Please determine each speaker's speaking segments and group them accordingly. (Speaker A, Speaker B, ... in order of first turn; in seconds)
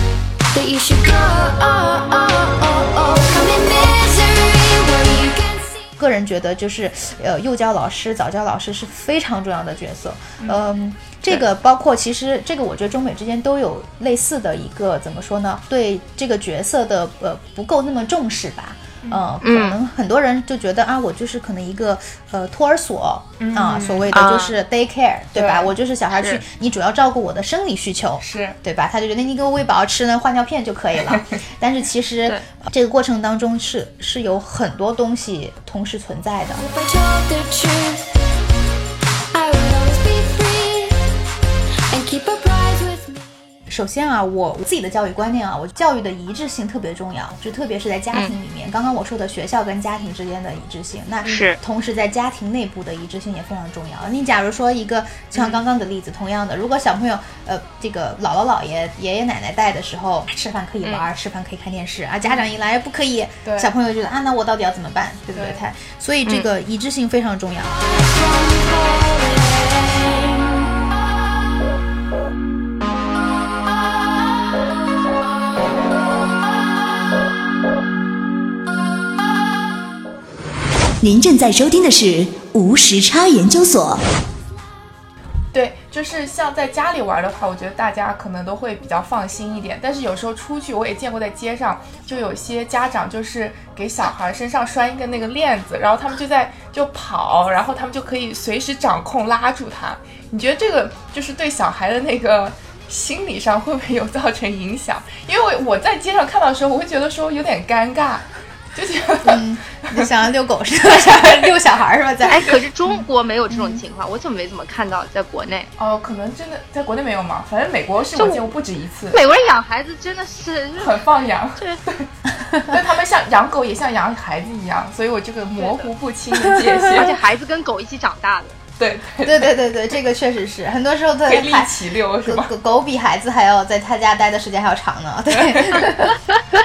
Speaker A: 0.5-5.8, 36.5-38.2, 39.3-41.0, 41.9-43.3, 68.0-70.3
Speaker B: 6.0-36.6, 43.7-67.8, 109.2-113.8, 122.3-122.8, 126.3-127.1, 129.2-136.2
Speaker C: 19.4-19.8, 24.1-24.6, 26.1-26.4, 51.2-51.6, 112.2-115.7, 118.2-118.4, 119.1-121.0, 125.6-125.9, 126.9-128.6
Speaker D: 23.4-24.2, 25.3-25.7, 28.2-28.6, 55.3-55.6, 62.2-62.5, 63.4-63.7, 65.3-65.6, 85.5-110.1, 111.0-111.5, 115.8-119.2, 120.8-122.1, 122.6-127.2, 128.8-129.5, 131.2-132.5, 135.3-136.0
Speaker E: 81.0-84.0